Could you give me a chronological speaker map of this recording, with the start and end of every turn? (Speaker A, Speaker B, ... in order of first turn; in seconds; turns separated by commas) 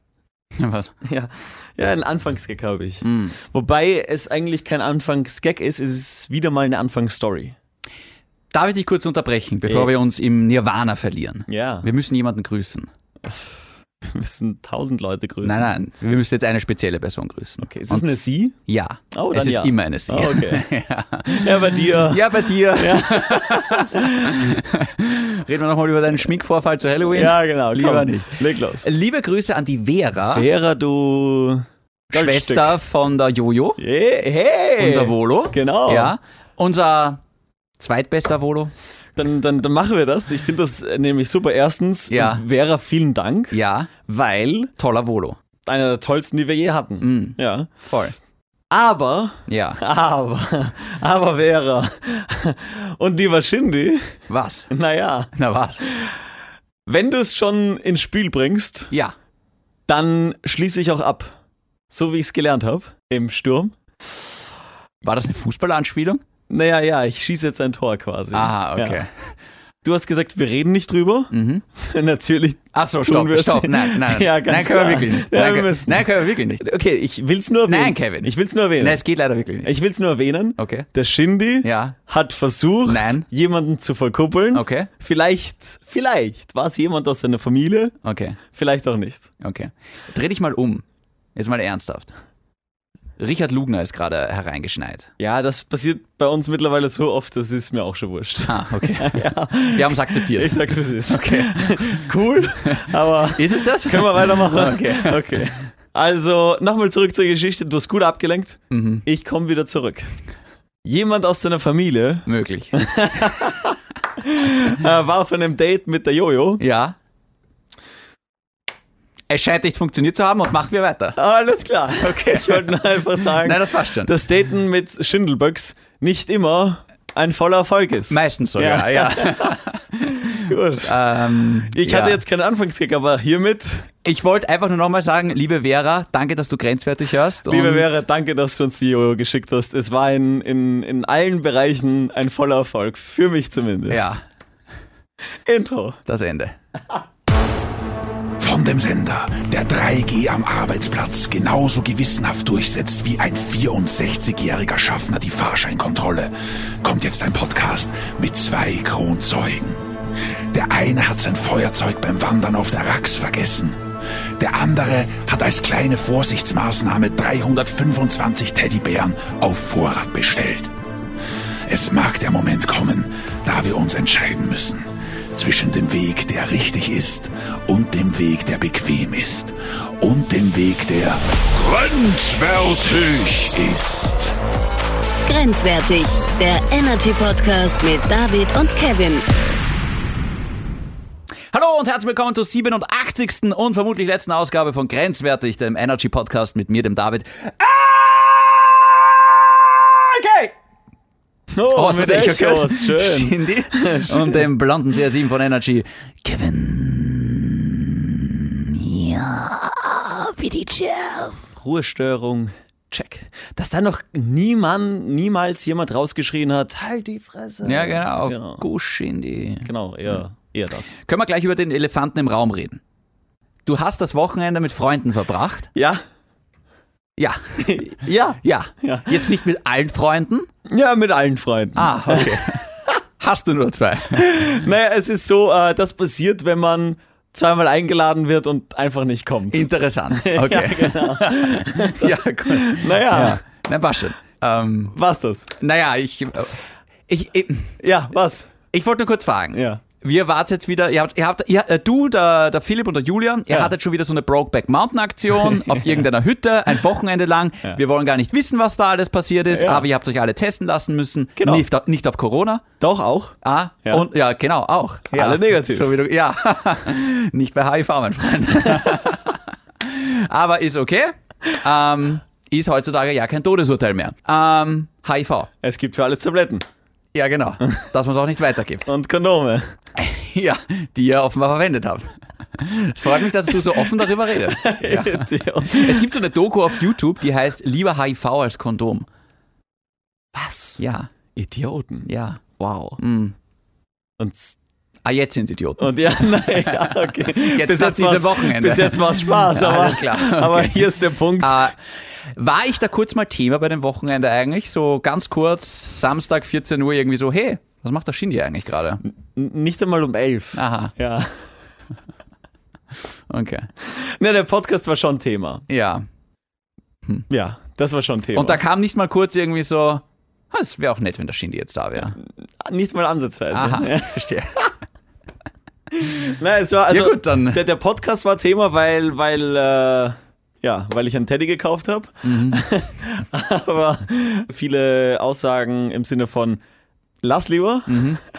Speaker A: 0.6-0.9, Speaker B: 1.0-7.5, Speaker A: 3.0-3.4, Speaker A: 8.5-12.9, Speaker B: 11.5-11.9, Speaker B: 13.2-15.7, Speaker A: 15.4-30.5, Speaker B: 17.6-18.6, Speaker B: 19.1-20.6, Speaker B: 21.3-22.2, Speaker B: 22.8-24.5, Speaker B: 27.1-28.9, Speaker B: 30.3-32.8, Speaker A: 32.1-33.8, Speaker B: 33.8-36.1, Speaker A: 34.8-37.2, Speaker A: 37.8-38.7, Speaker B: 39.2-44.7, Speaker A: 42.1-42.4, Speaker A: 43.5-43.9, Speaker A: 44.8-45.4, Speaker B: 45.6-47.7, Speaker A: 47.0-48.1, Speaker B: 48.7-54.2, Speaker A: 49.5-49.8, Speaker A: 54.3-54.7, Speaker B: 54.7-55.3, Speaker A: 55.4-55.8, Speaker B: 56.9-58.9, Speaker B: 59.9-61.3, Speaker B: 61.9-63.8, Speaker A: 65.0-66.2, Speaker B: 66.5-69.0, Speaker A: 68.3-69.1, Speaker B: 69.8-76.1, Speaker A: 71.3-71.7, Speaker A: 72.7-76.6, Speaker B: 76.6-79.0, Speaker A: 77.7-79.7, Speaker B: 79.6-88.0, Speaker A: 80.6-80.9, Speaker A: 81.6-82.0, Speaker A: 82.9-83.3, Speaker A: 84.5-84.9, Speaker A: 88.0-88.4, Speaker B: 88.5-89.3, Speaker A: 89.4-92.1, Speaker A: 93.2-95.1, Speaker B: 95.2-110.1, Speaker A: 98.5-102.1, Speaker A: 103.3-105.5, Speaker A: 108.7-109.0, Speaker B: 110.8-116.6, Speaker A: 112.3-113.2, Speaker A: 116.6-117.0, Speaker A: 119.3-121.2, Speaker B: 121.2-130.9, Speaker A: 122.0-124.1, Speaker A: 128.1-130.3, Speaker A: 130.8-132.2, Speaker B: 131.7-133.9, Speaker A: 134.0-138.0, Speaker B: 137.5-144.2, Speaker A: 143.9-144.2, Speaker B: 145.5-146.0, Speaker A: 146.1-146.6, Speaker C: 148.4-159.9, Speaker C: 160.5-163.8, Speaker C: 164.4-170.7, Speaker C: 171.7-184.4, Speaker D: 185.2-189.3, Speaker A: 191.5-200.5, Speaker B: 201.5-204.4, Speaker A: 201.7-211.4, Speaker B: 211.5-218.6, Speaker A: 217.7-219.7, Speaker B: 219.6-221.0, Speaker A: 221.0-222.8, Speaker A: 223.7-225.7, Speaker B: 225.8-226.0, Speaker A: 227.2-230.5, Speaker B: 227.6-229.3, Speaker B: 230.7-232.5, Speaker A: 231.8-232.7, Speaker A: 233.2-234.3, Speaker B: 234.2-243.4, Speaker A: 239.5-244.9, Speaker B: 244.9-245.5, Speaker A: 245.6-247.8, Speaker B: 247.8-248.5, Speaker A: 248.7-262.6, Speaker B: 249.5-249.8, Speaker B: 255.4-256.0, Speaker B: 259.5-259.9, Speaker B: 261.4-261.6, Speaker B: 262.8-264.1, Speaker A: 263.4-275.5, Speaker B: 265.1-265.9, Speaker B: 275.6-276.6, Speaker A: 277.1-278.9, Speaker B: 278.9-279.7, Speaker A: 280.0-289.1, Speaker B: 284.5-286.0, Speaker B: 290.3-290.8, Speaker A: 290.8-291.1, Speaker B: 291.4-293.0, Speaker A: 292.1-292.4, Speaker A: 293.0-293.4, Speaker B: 294.2-294.6, Speaker A: 295.0-296.0, Speaker B: 295.8-301.6, Speaker A: 296.9-309.0, Speaker B: 309.1-311.4, Speaker A: 310.6-310.9, Speaker A: 313.3-313.7, Speaker B: 313.9-315.6, Speaker A: 315.7-316.1, Speaker B: 317.3-318.6, Speaker A: 318.4-322.2, Speaker B: 322.2-324.3, Speaker A: 323.5-324.6, Speaker B: 325.9-336.6, Speaker A: 326.9-327.6, Speaker A: 332.2-332.6, Speaker B: 337.2-338.1, Speaker A: 337.9-338.2